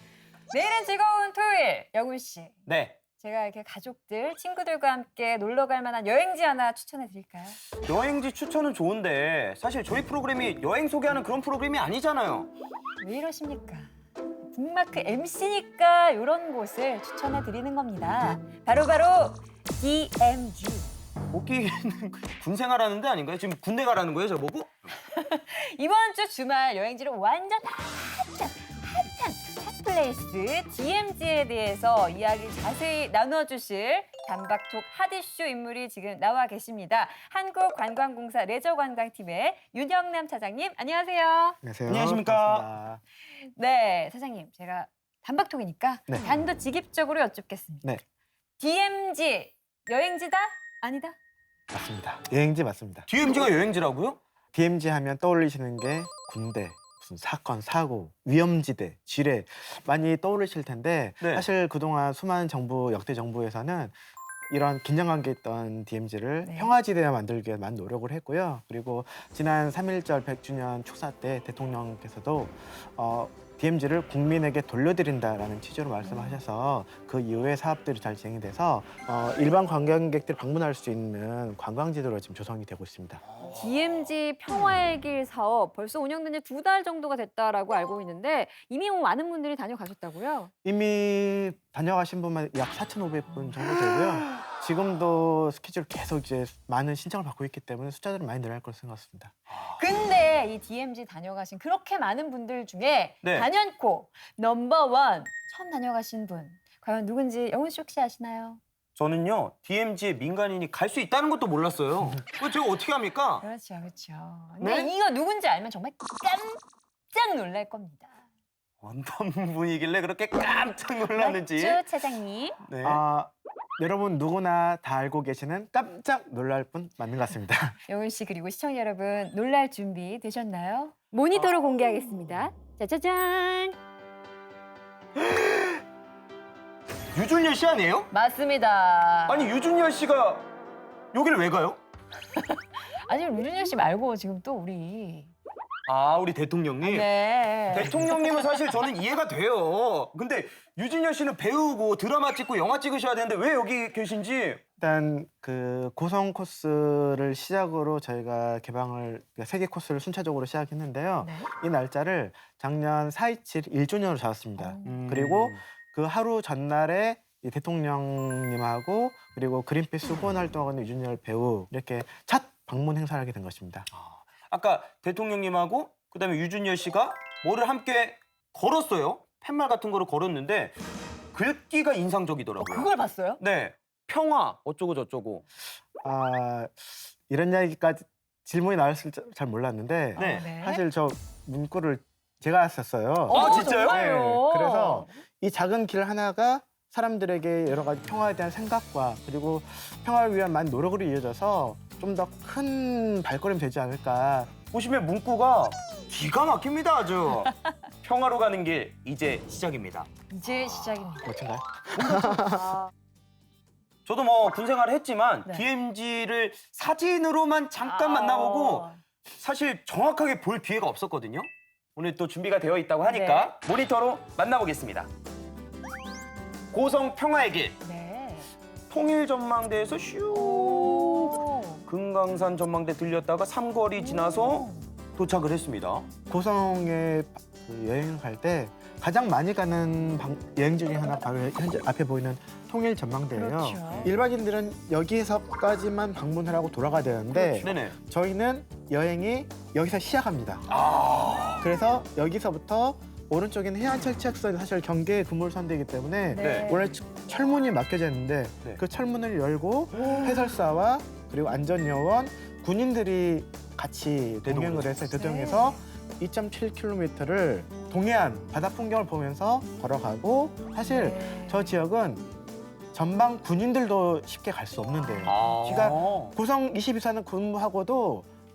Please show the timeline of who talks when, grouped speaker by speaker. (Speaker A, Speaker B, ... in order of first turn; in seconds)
Speaker A: 0.5-2.6, 3.2-7.6, 13.0-13.9, 14.5-20.9, 25.0-41.6, 43.3-47.9, 48.6-51.1, 66.4-66.7, 76.0-76.4, 83.4-90.5, 99.7-108.6, 113.4-118.1, 121.1-122.6, 127.9-133.8, 138.1-139.5, 142.3-145.3, 146.8-148.5, 161.2-161.5, 164.6-165.0, 182.6-183.4, 190.2-190.8, 193.3-195.2, 207.4-207.8, 210.3-211.3, 217.8-219.0, 223.0-223.5, 227.8-228.5, 230.3-231.8, 233.9-234.9, 243.3-244.1, 247.3-247.6, 256.3-256.9, 259.9-260.5, 265.1-265.8, 270.8-271.8, 275.2-275.8
Speaker B: 2.7-3.0, 7.8-12.5, 21.3-24.7, 41.9-42.7, 53.1-54.2, 61.2-61.5, 99.5-99.8, 103.2-103.5, 109.0-113.4, 114.6-114.9, 118.8-121.8, 122.6-123.0, 131.3-132.1, 135.2-135.8, 137.1-138.1, 139.3-140.5, 141.1-141.8, 145.9-147.1, 147.7-154.6, 164.8-165.6, 174.1-180.8, 181.3-182.9, 183.4-185.4, 190.2-190.5, 193.3-194.0, 204.7-207.5, 208.0-210.1, 214.1-225.1, 226.7-227.8, 228.9-236.1, 247.6-247.9, 250.7-251.7, 256.4-256.8, 264.4-264.9, 275.2-276.3
Speaker C: 41.6-43.0, 51.7-53.1, 54.5-63.9, 64.5-83.2, 90.6-99.3, 122.8-127.8, 154.8-173.9, 186.0-204.5, 211.2-212.8, 236.3-250.6, 251.6-272.2, 272.9-278.2